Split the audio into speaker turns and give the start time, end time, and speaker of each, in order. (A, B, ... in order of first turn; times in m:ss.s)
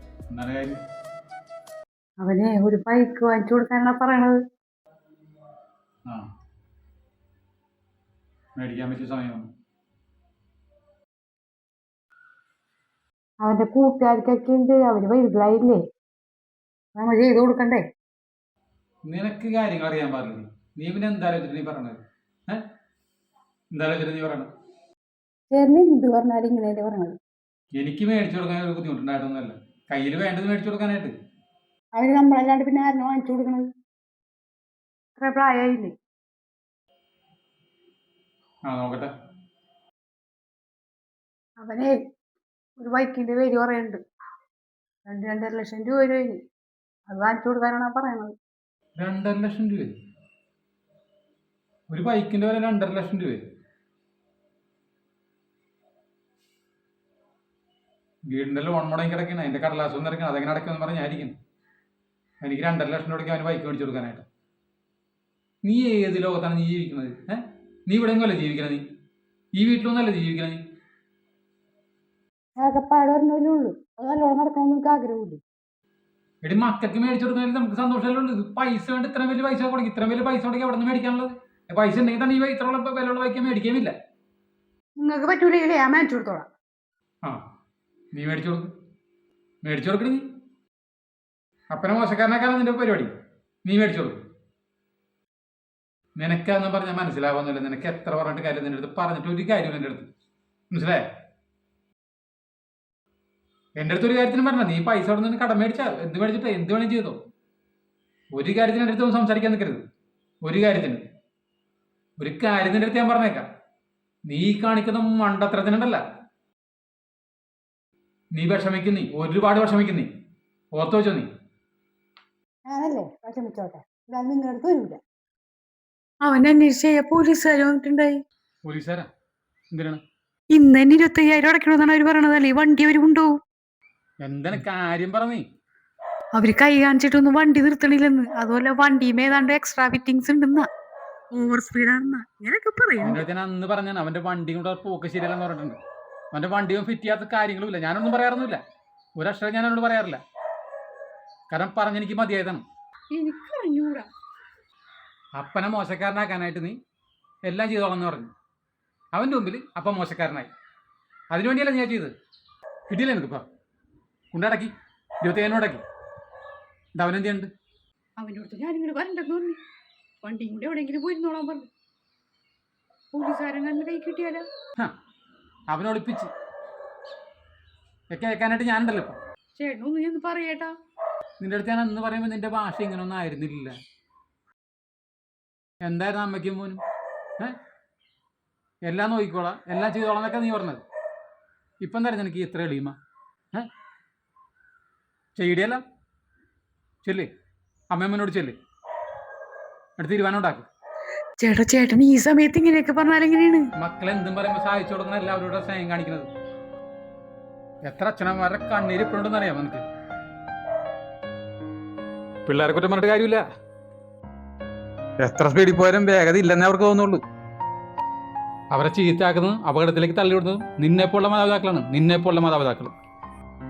0:00.3-0:00.8 A
0:02.2-0:04.4 B
0:08.6-0:09.5 A
0:13.4-0:15.8 B
0:17.0-0:17.8 B
0:19.0-0:22.7 A
0:23.7-0:24.5 A
0:25.5-0:27.2 B
0:27.7-0:31.1 A
0:32.0-0:33.7 B
0:35.2-0:36.0 B
0:38.7-0:39.1 A
0:41.6-0:42.0 B
0:42.8-0:44.0 B
0:45.0-0:46.4 B
0:47.1-0:48.4 B
0:49.0-0:49.9 A
0:51.9-0:53.4 A
0:58.2-1:01.4 A
1:02.4-1:04.2 A
1:05.6-1:08.8 A
1:09.6-1:10.6 A
1:12.6-1:15.4 B
1:16.4-1:23.9 A
1:25.0-1:26.5 B
1:28.1-1:28.7 A
1:29.6-1:30.3 A
1:31.7-1:33.1 A
1:33.6-1:34.2 A
1:36.2-1:40.1 A
1:40.7-1:41.0 A
1:43.8-1:47.2 A
1:48.3-1:49.8 A
1:50.4-1:51.0 A
1:52.2-1:53.4 A
1:54.2-1:56.0 A
1:58.3-2:00.1 A
2:00.7-2:01.3 A
2:02.7-2:05.0 B
2:06.2-2:08.2 B
2:08.6-2:09.1 A
2:09.7-2:10.0 A
2:10.5-2:13.4 B
2:14.2-2:15.5 A
2:16.3-2:20.7 B
2:21.3-2:23.2 B
2:23.0-2:25.8 A
2:26.3-2:28.6 A
2:29.2-2:30.2 A
2:31.5-2:32.6 A
2:33.1-2:34.1 B
2:35.3-2:36.8 A
2:37.5-2:38.3 A
2:39.1-2:40.5 A
2:41.3-2:42.1 A
2:42.9-2:43.5 A
2:44.3-2:45.8 A
2:46.9-2:47.5 A
2:48.2-2:49.6 B
2:50.2-2:51.7 B
2:53.1-2:54.5 B
2:55.7-2:56.3 A
2:58.1-2:59.2 A
2:59.6-3:00.8 B
3:01.4-3:03.8 A
3:05.8-3:06.8 A
3:08.8-3:10.8 A
3:11.8-3:13.0 A
3:15.4-3:15.8 A
3:17.0-3:17.3 A
3:17.9-3:18.6 A
3:20.0-3:20.7 A
3:21.4-3:23.7 B
3:23.8-3:26.3 A
3:27.8-3:29.8 A
3:32.5-3:33.4 A
3:35.2-3:37.2 A
3:38.7-3:42.9 A